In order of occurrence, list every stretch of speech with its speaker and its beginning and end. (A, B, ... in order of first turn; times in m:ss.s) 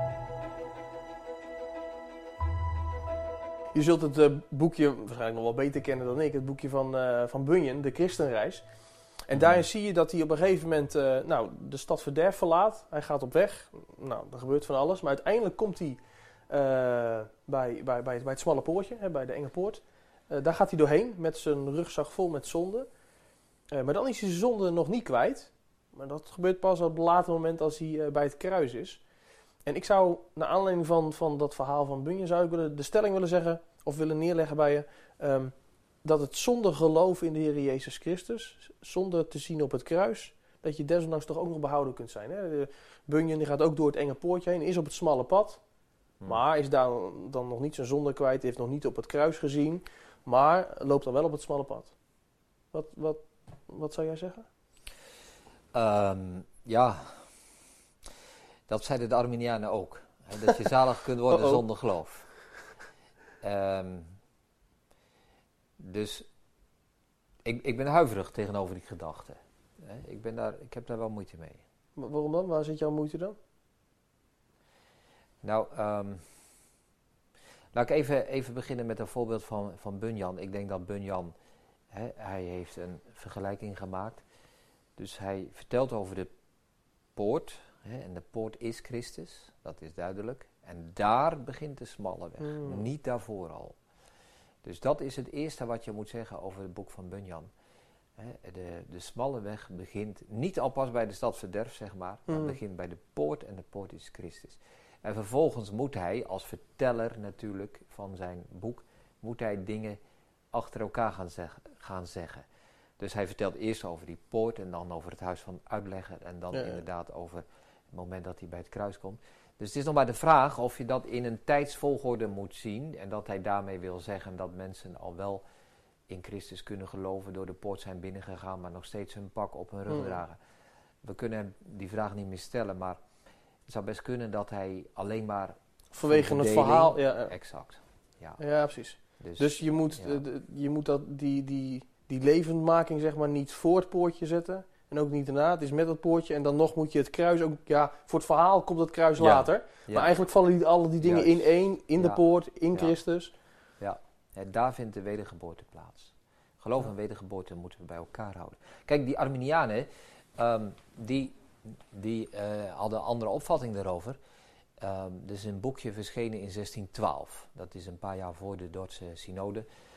0:03.7-0:08.6 A
0:09.2-0:22.9 A
0:23.7-0:29.0 A
0:29.7-0:45.6 A
0:46.3-0:51.9 A
0:52.7-0:54.5 A
0:55.7-0:57.1 B
0:58.7-1:02.3 B
1:03.4-1:04.2 B
1:05.8-1:06.3 B
1:07.4-1:11.6 B
1:12.0-1:13.4 A
1:15.4-1:16.2 B
1:17.7-1:21.3 B
1:21.9-1:24.2 B
1:25.0-1:26.3 B
1:27.2-1:33.8 B
1:32.4-1:32.8 A
1:34.6-1:37.5 B
1:38.2-1:50.0 B
1:42.3-1:42.6 A
1:50.5-1:52.4 B
1:53.0-2:05.4 B
1:56.5-1:56.8 A
2:06.1-2:10.4 B
2:09.9-2:10.2 A
2:11.0-2:13.0 B
2:13.7-2:15.6 B
2:15.9-2:17.3 A
2:16.1-2:18.4 B
2:18.4-2:33.3 A
2:19.2-2:20.2 B
2:29.2-2:30.1 B
2:31.0-2:32.2 B
2:33.8-2:41.3 B
2:41.9-2:44.2 B
2:44.8-2:49.6 B